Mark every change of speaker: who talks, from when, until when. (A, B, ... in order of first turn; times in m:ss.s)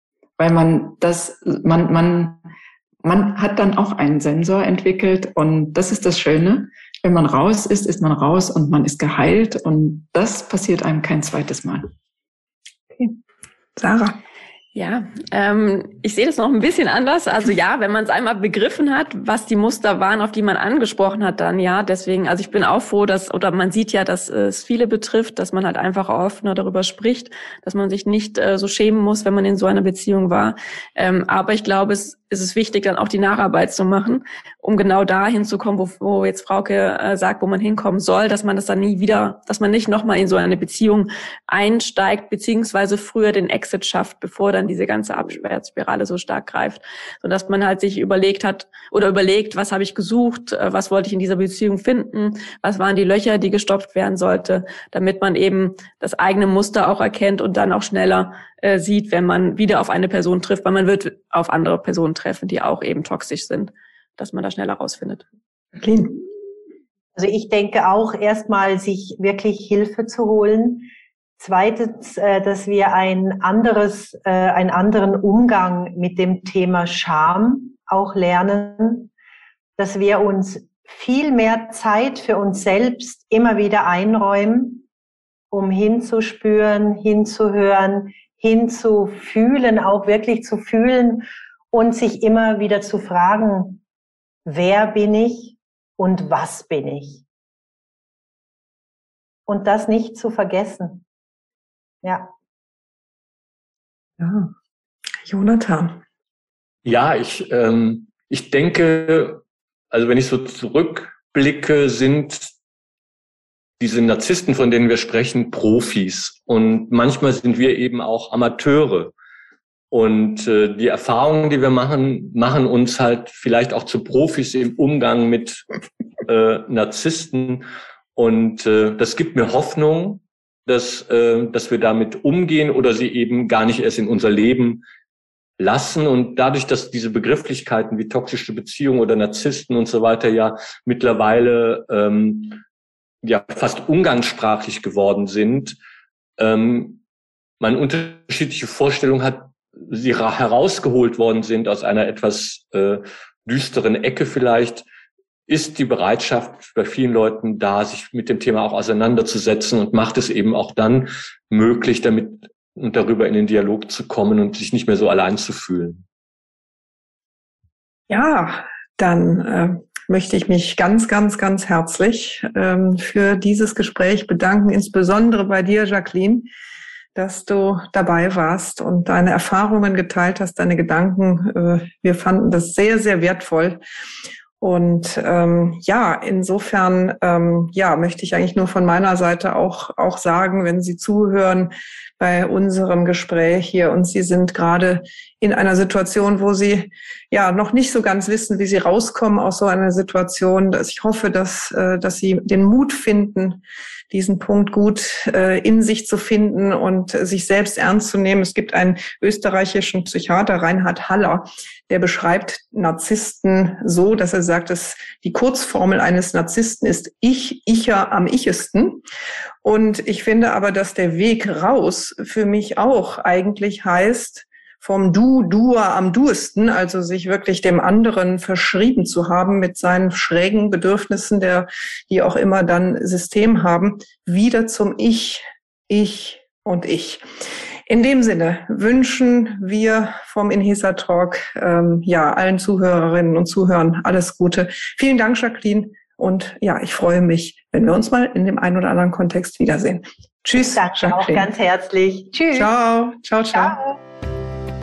0:00.4-0:02.4 A
0:03.0-0:11.9 A
0:13.8-0:14.2 B
0:14.8-1:05.2 C
1:05.8-1:06.2 B
1:07.2-1:19.1 D
1:19.8-1:24.9 D
1:25.5-1:33.8 D
1:34.5-1:37.2 D
1:39.5-1:41.0 D
1:42.0-1:42.3 D
1:44.2-1:44.5 B
1:45.2-1:46.0 B
1:46.8-1:52.5 E
1:53.8-1:59.1 E
1:59.9-2:05.6 E
2:06.2-2:14.8 E
2:15.6-2:22.6 E
2:23.2-2:25.8 E
2:26.4-2:27.0 E
2:27.6-2:34.9 E
2:35.5-2:46.0 E
2:48.1-2:56.5 B
2:57.2-3:03.8 B
3:04.6-3:39.0 B
3:39.6-3:57.3 B
3:57.9-4:11.5 B
4:10.6-4:12.7 D
4:12.6-4:13.8 B
4:13.5-4:13.9 D